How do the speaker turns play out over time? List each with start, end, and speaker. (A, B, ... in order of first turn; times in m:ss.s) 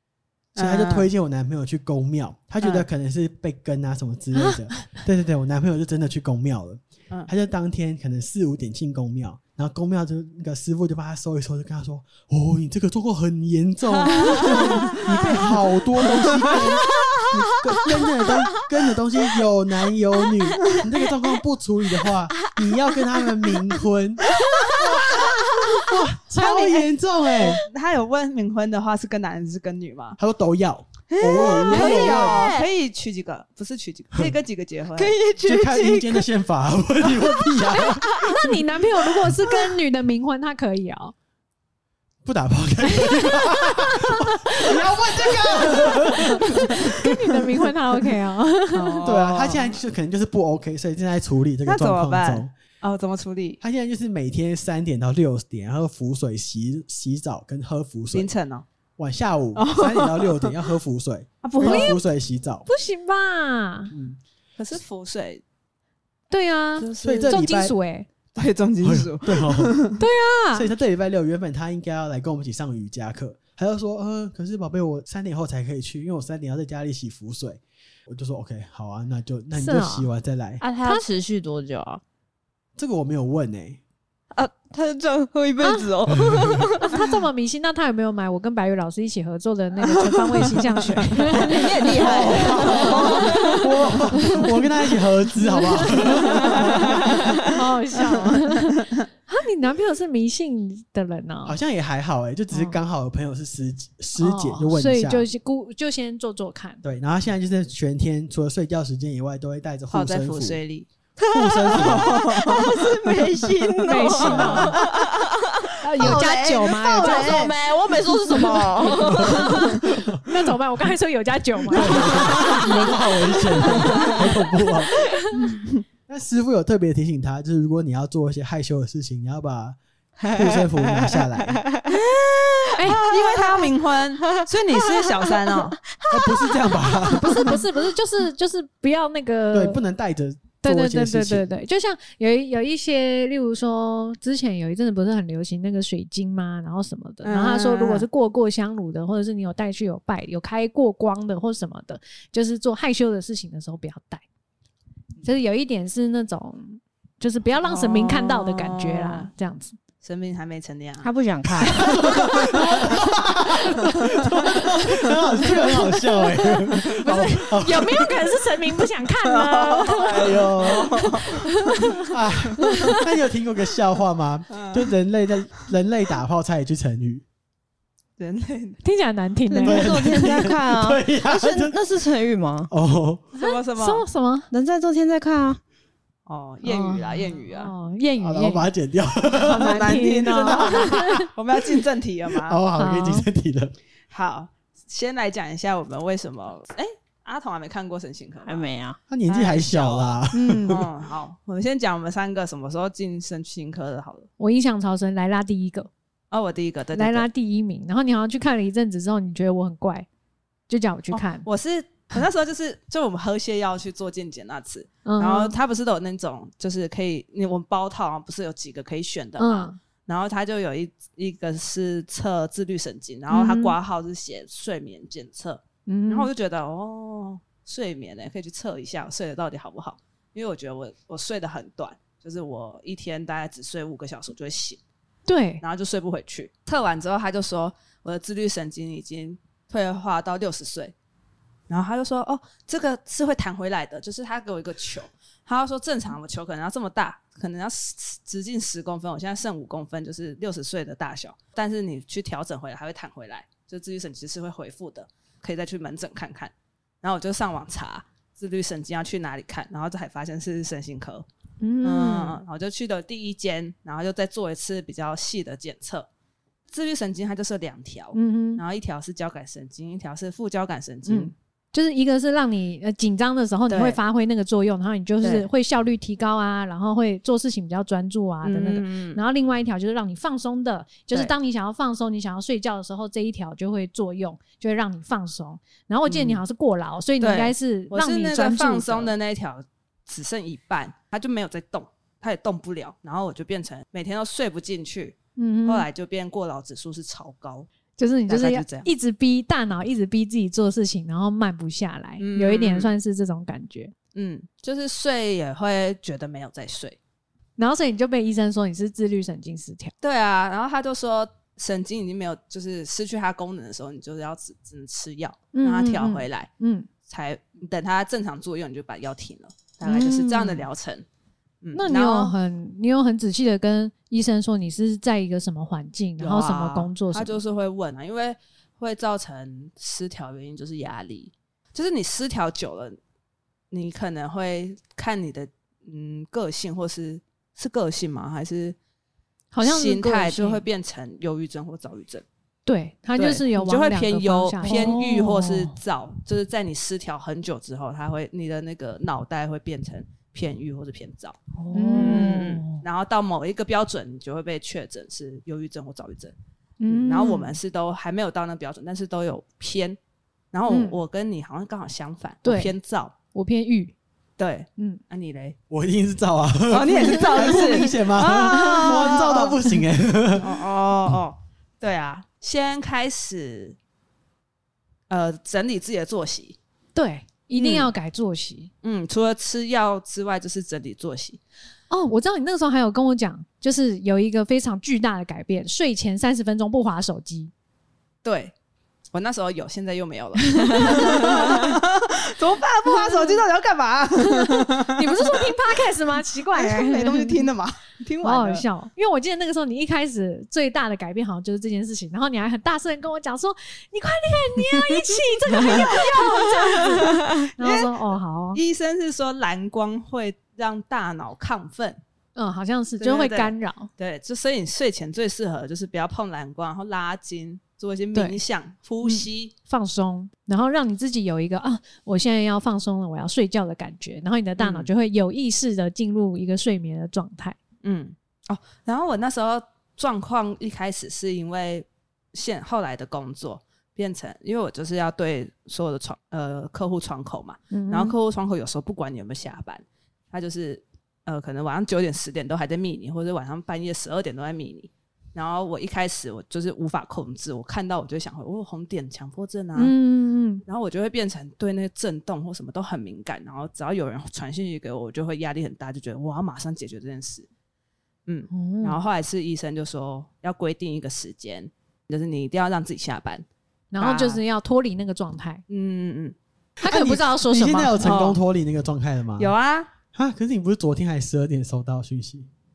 0:00.5-0:01.1 A
0:00.6-0:27.6 B
0:02.6-0:02.9 A
0:04.3-0:05.0 C
0:13.9-0:15.5 A
0:16.1-0:16.6 A
0:24.6-0:25.8 D
0:26.3-0:26.9 A
0:27.4-0:30.2 A
0:30.2-0:32.5 B
0:31.1-0:32.7 D
0:31.4-0:35.2 A
0:35.0-0:36.2 D
0:35.4-0:38.2 B
0:37.7-0:41.1 C
0:42.2-0:47.0 B
0:42.9-0:49.0 C
0:48.7-0:49.8 A
0:49.0-0:52.5 B
0:51.6-0:53.6 A
0:53.6-0:58.3 B
0:58.1-0:58.6 A
0:59.0-1:02.6 B
0:59.5-1:00.6 A
1:01.4-1:02.0 A
1:01.6-1:02.0 C
1:02.6-1:03.9 C
1:03.9-1:04.2 B
1:04.6-1:05.4 A
1:06.3-1:08.1 C
1:06.8-1:07.4 A
1:07.0-1:07.8 B
1:08.3-1:10.0 A
1:08.8-1:09.8 B
1:10.0-1:10.7 C
1:10.5-1:20.6 B
1:19.5-1:20.1 C
1:20.6-1:22.0 D
1:22.8-1:23.8 B
1:24.3-1:27.0 D
1:26.2-1:26.7 B
1:26.8-1:33.7 C
1:31.3-1:33.7 D
1:32.0-1:37.5 B
1:32.1-1:32.8 A
1:35.4-1:36.9 C
1:37.4-1:41.6 C
1:41.4-1:45.3 B
1:42.5-1:42.8 C
1:44.2-1:46.8 C
1:46.8-1:50.6 B
1:49.9-1:50.9 A
1:51.2-2:00.0 D
1:51.3-1:52.2 B
1:51.7-1:52.7 A
1:53.7-1:54.6 A
1:53.8-1:54.8 C
1:54.2-1:54.8 B
1:55.8-1:57.5 C
1:57.0-1:57.4 A
1:58.9-2:00.2 B
1:59.0-2:02.7 C
2:01.7-2:05.1 B
2:02.0-2:02.9 D
2:03.7-2:04.2 D
2:03.8-2:04.2 A
2:05.1-2:05.4 C
2:05.3-2:05.8 A
2:06.1-2:09.8 B
2:10.2-2:11.9 D
2:10.3-2:11.6 B
2:11.9-2:15.8 A
2:12.6-2:13.6 D
2:12.8-2:13.0 C
2:14.7-2:17.5 D
2:16.1-2:17.6 B
2:17.1-2:19.8 C
2:19.5-2:21.5 B
2:20.6-2:34.2 C
2:27.2-2:28.0 A
2:35.2-2:39.8 C
2:37.6-2:39.3 A
2:40.0-2:41.1 A
2:41.0-2:42.7 D
2:41.5-2:48.2 B
2:45.8-2:52.1 C
2:49.2-2:51.8 A
2:50.1-2:51.1 B
2:52.0-2:57.2 B
2:52.6-2:53.0 C
2:54.5-2:54.9 A
2:58.2-2:58.8 A
2:58.8-3:00.2 C
2:59.5-3:02.7 D
2:59.6-3:01.8 B
3:02.7-3:03.2 B
3:03.3-3:04.0 A
3:03.4-3:04.5 C
3:04.5-3:05.6 D
3:06.2-3:07.7 A
3:06.6-3:08.7 C
3:08.2-3:11.3 B
3:09.3-3:11.3 C
3:09.5-3:12.6 A
3:12.3-3:13.7 B
3:12.8-3:13.3 C
3:14.1-3:18.7 A
3:18.4-3:19.0 D
3:19.1-3:20.9 B
3:19.3-3:24.3 A
3:20.3-3:20.8 C
3:24.4-3:25.9 C
3:26.3-3:27.3 A
3:26.9-3:30.1 C
3:30.7-3:31.4 C
3:31.1-3:54.8 A
3:35.0-3:35.6 C
3:39.4-3:39.8 C
3:43.3-3:43.7 C
3:45.8-3:46.3 C
3:55.3-3:55.6 C
3:55.6-4:00.9 A
4:01.7-4:21.2 A
4:21.6-4:22.4 C
4:21.8-4:26.1 A
4:26.7-4:31.3 A
4:28.1-4:28.6 C
4:31.0-4:49.1 C
4:33.7-4:34.0 A
4:35.2-4:35.5 A
4:38.4-4:39.2 A
4:46.1-4:46.4 A
4:47.2-4:57.7 A
4:55.4-4:55.9 C
4:58.0-5:03.9 C
4:58.3-4:58.9 A
5:02.2-5:02.9 A
5:04.1-5:07.0 A
5:07.6-5:09.9 C
5:10.0-5:16.5 A
5:15.5-5:16.9 C
5:17.1-5:21.0 A
5:19.8-5:20.6 C
5:21.6-5:22.3 A
5:21.7-5:27.4 C
5:26.2-5:33.0 A
5:33.7-5:38.8 A
5:39.5-5:40.6 C
5:39.6-5:42.2 A
5:42.6-5:45.0 C
5:43.2-5:51.4 A
5:44.6-5:45.7 D
5:51.6-5:52.6 D
5:51.7-5:52.8 C
5:52.0-5:56.3 A
5:56.8-5:57.6 C
5:56.9-6:00.0 A
6:00.5-6:03.1 A
6:00.7-6:01.0 C
6:02.4-6:02.7 C
6:03.3-6:03.9 C
6:04.4-6:05.6 A
6:05.7-6:10.6 B
6:06.7-6:09.6 A
6:07.3-6:09.5 C
6:10.4-6:13.8 A
6:15.1-6:16.6 A
6:16.9-6:18.7 C
6:17.6-6:17.9 A
6:18.8-6:21.4 A
6:21.9-6:27.5 C
6:28.2-6:28.5 A
6:29.1-6:35.5 A
6:30.6-6:31.7 C
6:32.8-6:33.4 C
6:34.2-6:37.5 C
6:36.5-6:38.6 A
6:38.2-6:48.6 C
6:45.6-6:45.9 D
6:47.6-6:48.0 A
6:48.5-6:52.0 A
6:52.4-6:53.9 C
6:53.0-6:59.5 A
6:58.1-6:58.4 C
6:59.0-7:07.6 C
7:04.6-7:04.9 A
7:07.8-7:29.9 A
7:17.7-7:18.1 C
7:29.8-7:30.6 C
7:30.6-7:37.5 A
7:38.3-7:43.4 A
7:38.5-7:39.0 C
7:43.9-7:45.6 C
7:44.0-7:44.4 A
7:45.7-7:46.3 A
7:46.8-7:48.1 C
7:46.8-7:49.5 B
7:48.0-7:48.4 A
7:49.4-7:49.9 A
7:50.1-7:52.5 B